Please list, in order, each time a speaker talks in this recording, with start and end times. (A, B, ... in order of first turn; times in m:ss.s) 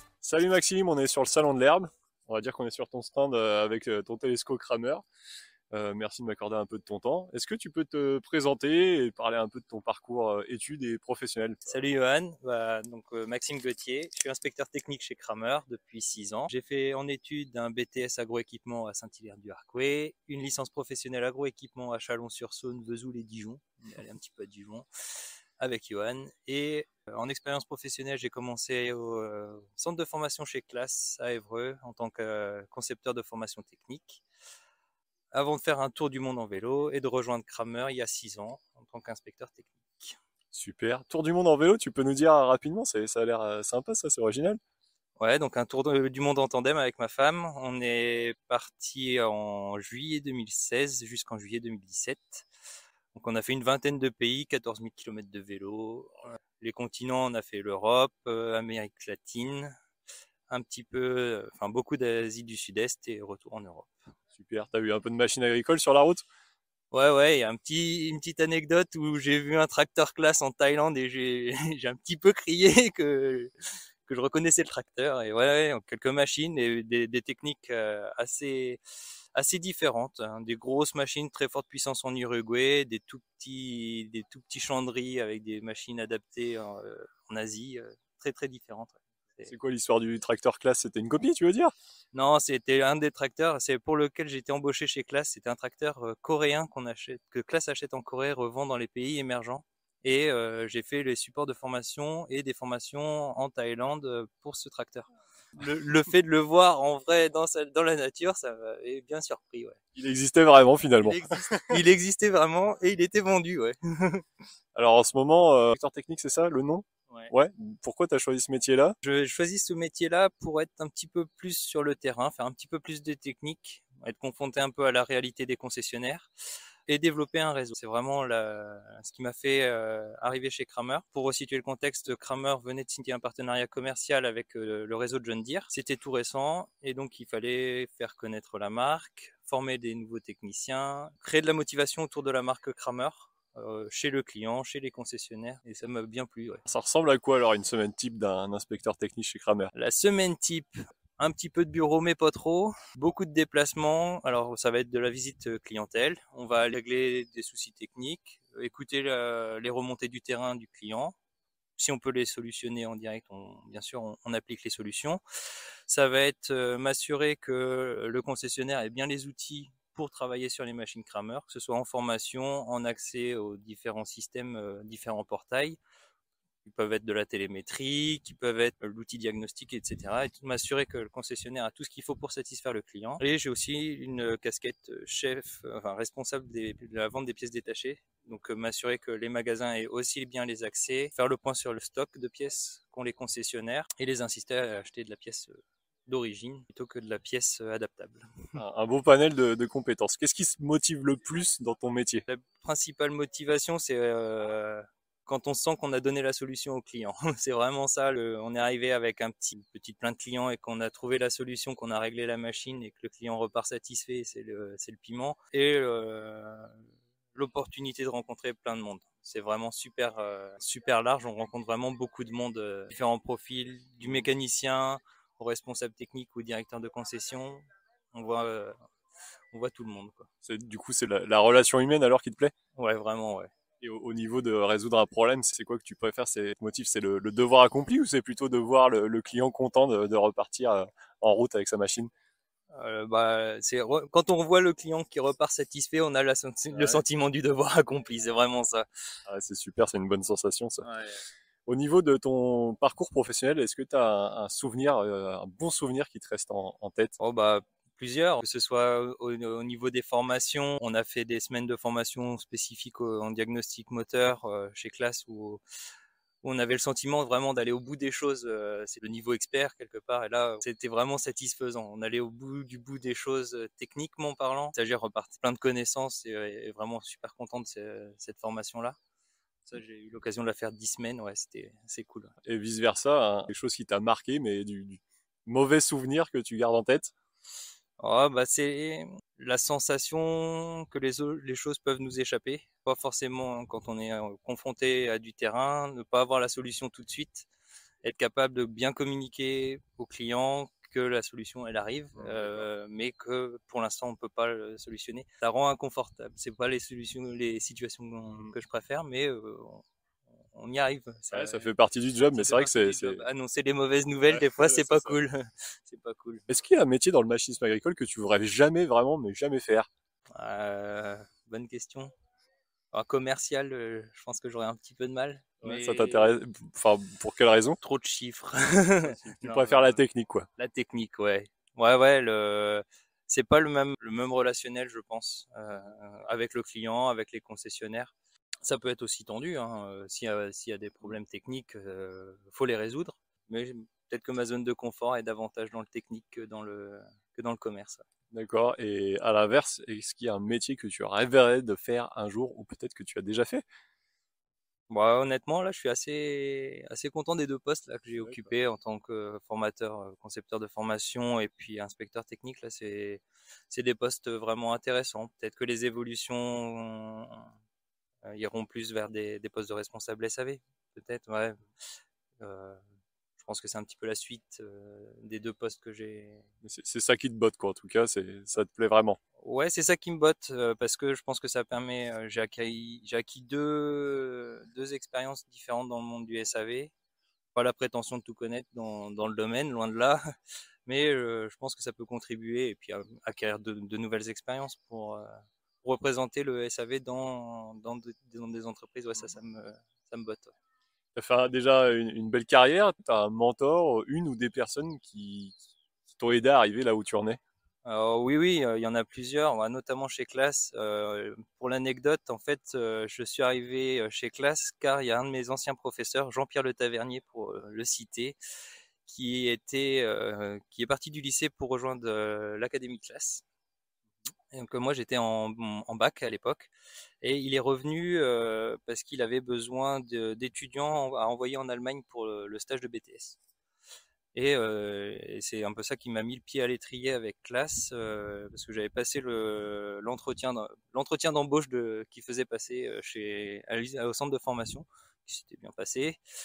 0:00.2-0:05.0 A
0:05.7-0:11.6 A
0:11.6-0:24.9 B
0:25.6-0:34.2 B
0:35.3-0:40.2 B
0:40.5-0:44.6 A
0:45.2-0:52.5 B
0:53.1-0:59.7 B
1:00.5-1:04.1 B
1:04.3-1:06.2 A
1:06.9-1:13.5 B
1:14.0-1:18.8 B
1:19.3-1:29.5 B
1:29.5-1:31.7 A
1:32.1-1:49.8 B
1:49.9-1:51.8 A
1:51.0-1:54.2 B
1:54.7-1:59.0 A
1:59.0-2:06.3 B
2:06.9-2:26.6 B
2:26.6-2:29.7 A
2:29.7-2:41.1 B
2:41.8-2:45.2 B
2:45.9-2:55.8 B
2:56.6-3:18.5 B
3:18.6-3:22.2 A
3:22.3-3:36.8 B
3:37.3-3:48.7 B
3:49.5-3:50.3 B
3:50.4-3:52.5 A
3:52.8-3:53.5 B
3:53.8-4:02.1 A
4:02.7-4:08.9 B
4:06.7-4:07.0 A
4:09.2-4:10.8 A
4:10.8-4:11.2 B
4:11.7-4:17.1 A
4:17.2-4:25.6 B
4:26.4-4:39.0 B
4:39.6-4:42.3 B
4:42.4-4:47.1 A
4:48.0-4:57.5 B
4:58.0-5:09.8 B
5:02.2-5:02.7 A
5:10.5-5:11.7 B
5:11.3-5:13.2 A
5:12.2-5:16.4 B
5:14.3-5:15.2 A
5:16.5-5:19.9 A
5:20.3-5:22.1 B
5:22.9-5:26.4 B
5:25.6-5:27.8 A
5:27.8-5:30.0 B
5:29.0-5:30.5 A
5:30.6-5:38.1 B
5:38.6-5:48.0 B
5:48.3-5:53.6 A
5:54.9-6:07.5 B
5:58.2-5:58.5 A
6:08.2-6:11.6 B
6:12.4-6:12.8 B
6:13.4-6:16.4 B
6:16.6-6:19.2 A
6:19.4-6:26.9 B
6:27.5-6:30.2 B
6:30.8-6:40.5 B
6:41.1-6:45.5 A
6:46.1-6:47.4 A
6:47.8-6:58.4 B
6:59.0-7:03.4 B
7:04.5-7:13.4 B
7:14.3-7:26.2 B